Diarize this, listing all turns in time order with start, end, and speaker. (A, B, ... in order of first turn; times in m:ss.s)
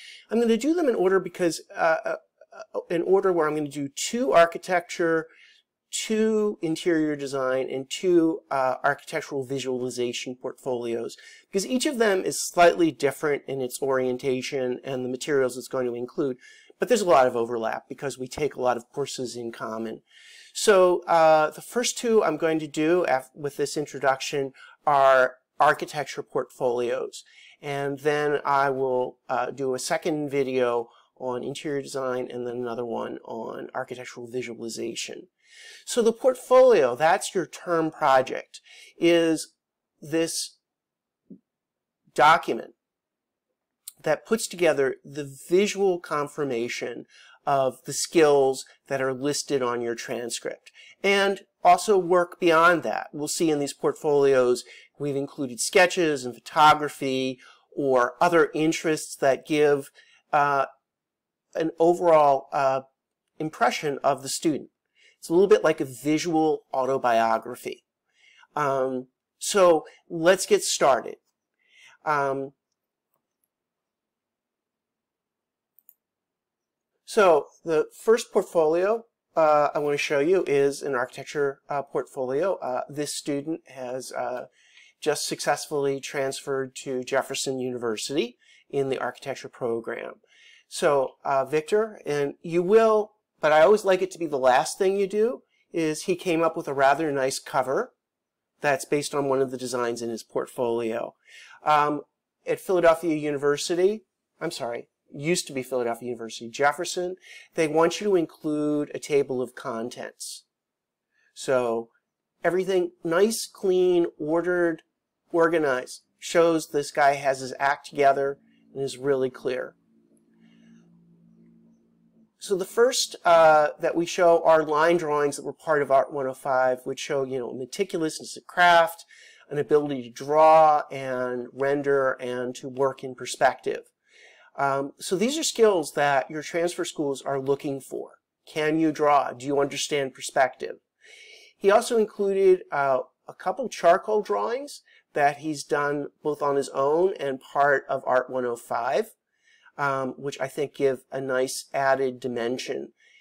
0:00.3-0:05.3 A
0:05.9-0:35.3 A
0:35.8-0:40.6 A
0:42.1-0:42.7 A
0:44.0-1:00.7 A
1:01.5-1:02.8 A
1:03.4-1:07.8 A
1:08.6-1:11.2 A
1:12.0-1:12.5 A
1:17.0-1:24.5 A
1:25.0-1:37.9 A
1:38.6-1:50.4 A
1:51.3-1:51.9 A
1:52.4-1:59.8 A
2:02.4-2:13.9 A
2:14.6-2:20.8 A
2:21.6-2:29.1 A
2:29.8-2:32.9 A